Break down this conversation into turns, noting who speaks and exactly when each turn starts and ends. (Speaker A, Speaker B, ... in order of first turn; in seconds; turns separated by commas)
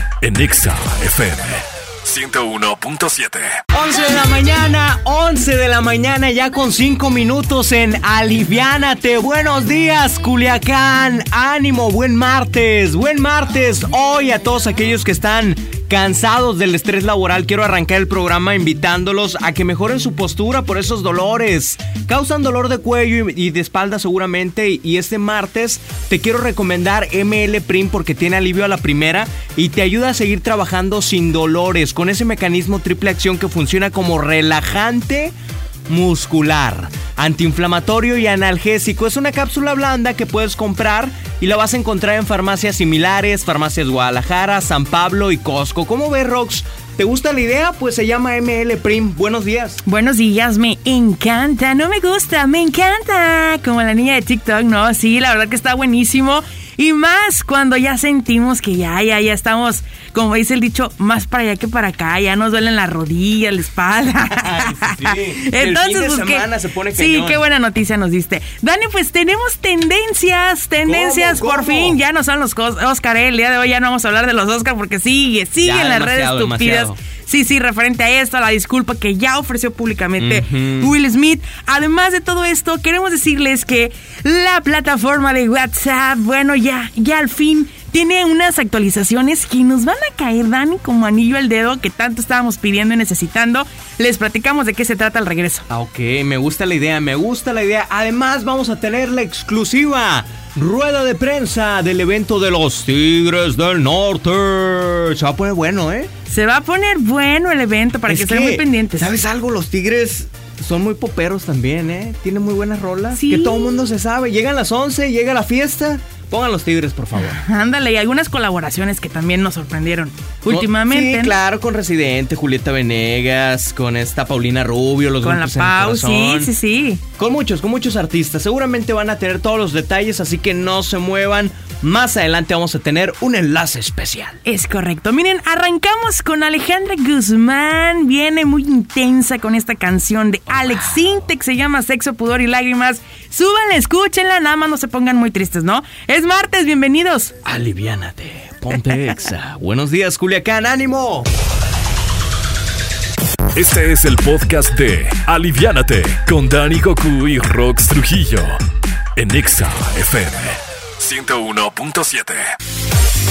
Speaker A: 0.2-3.5, Speaker B: 3.7-35.3, Speaker B: 35.9-49.8, Speaker C: 49.8-95.7, Speaker B: 64.3-67.4, Speaker B: 70.8-72.0, Speaker B: 75.6-77.0, Speaker B: 80.2-80.9, Speaker B: 95.7-106.1, Speaker C: 106.3-109.1, Speaker B: 108.1-117.4, Speaker C: 113.1-113.9, Speaker C: 117.2-121.4, Speaker B: 120.5-126.5, Speaker C: 125.2-127.0, Speaker B: 127.2-134.4, Speaker C: 134.4-147.3, Speaker B: 147.4-151.3, Speaker A: 153.5-158.6, Speaker A: 159.2-162.4